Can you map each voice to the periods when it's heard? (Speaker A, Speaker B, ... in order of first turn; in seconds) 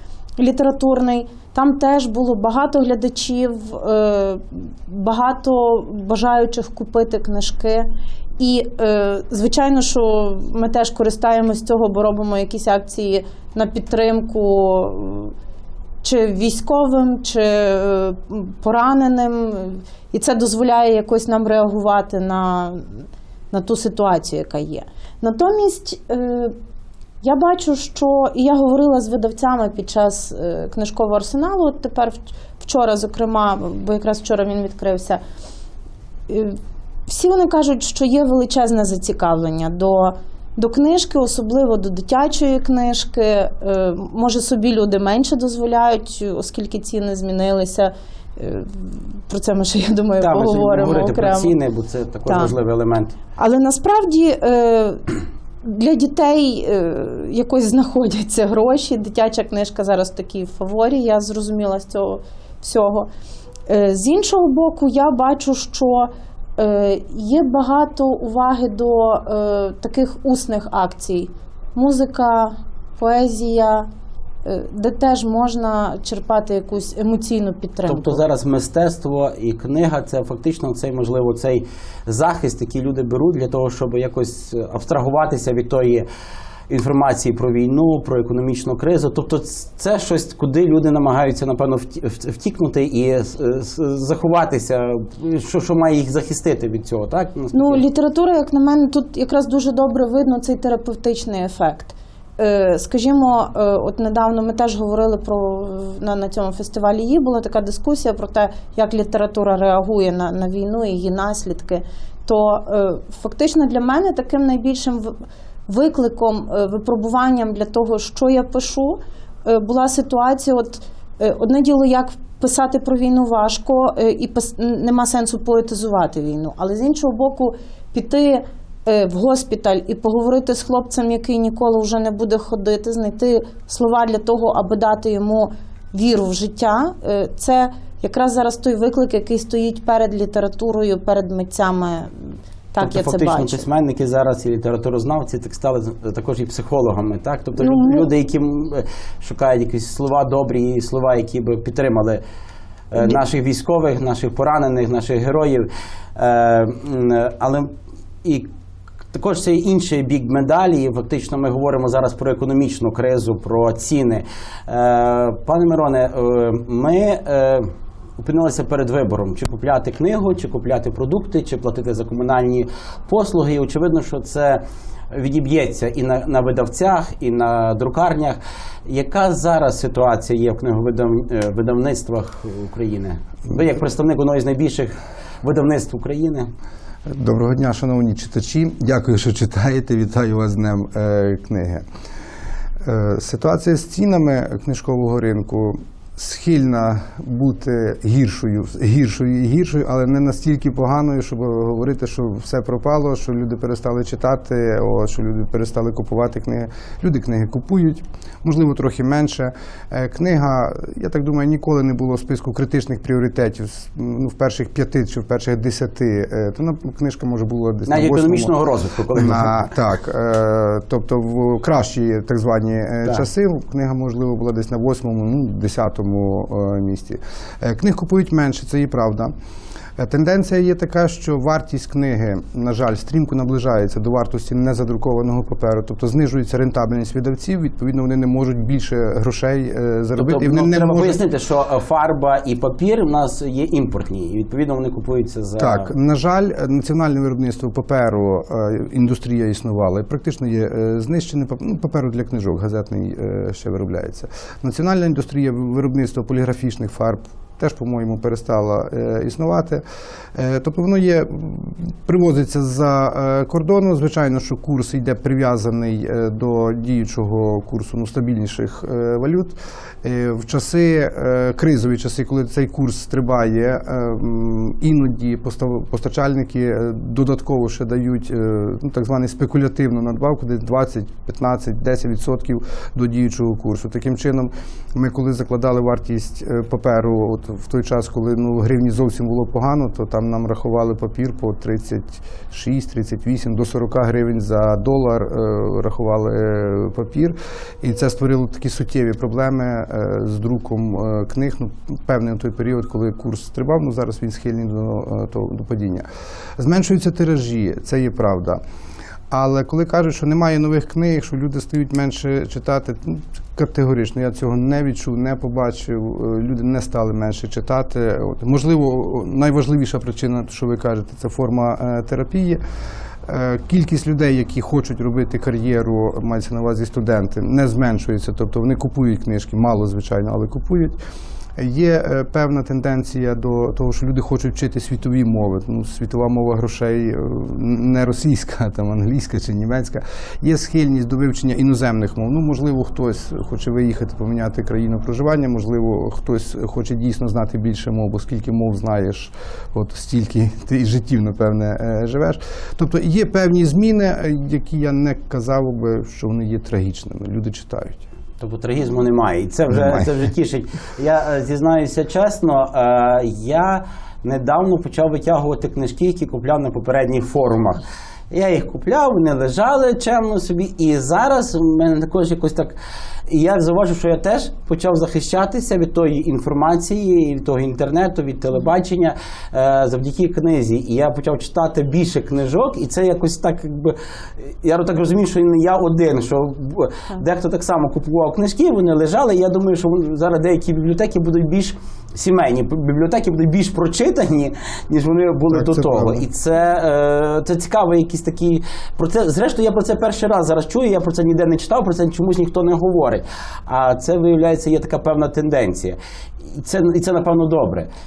Speaker A: 0.4-15.3, 16.0-26.6, 27.2-35.2, 36.3-51.5, 52.3-52.5, 53.4-55.1, 55.6-63.1, 63.7-73.9, 74.4-78.2, 97.5-143.7, 147.6-148.1
Speaker B: 50.2-53.2, 77.9-86.1, 86.7-97.8, 142.8-152.2, 152.9-157.7, 158.2-158.5, 159.1-167.7, 168.2-186.5, 217.9-219.7, 240.2-245.9, 358.4-372.7, 373.3-406.0, 406.6-407.9
Speaker C: 187.1-191.9, 192.8-218.5, 219.2-229.3, 230.0-241.2, 245.6-259.8, 260.4-306.1, 306.6-308.6, 309.3-322.6, 323.2-331.0, 331.6-358.1, 359.7-360.1, 395.5-396.2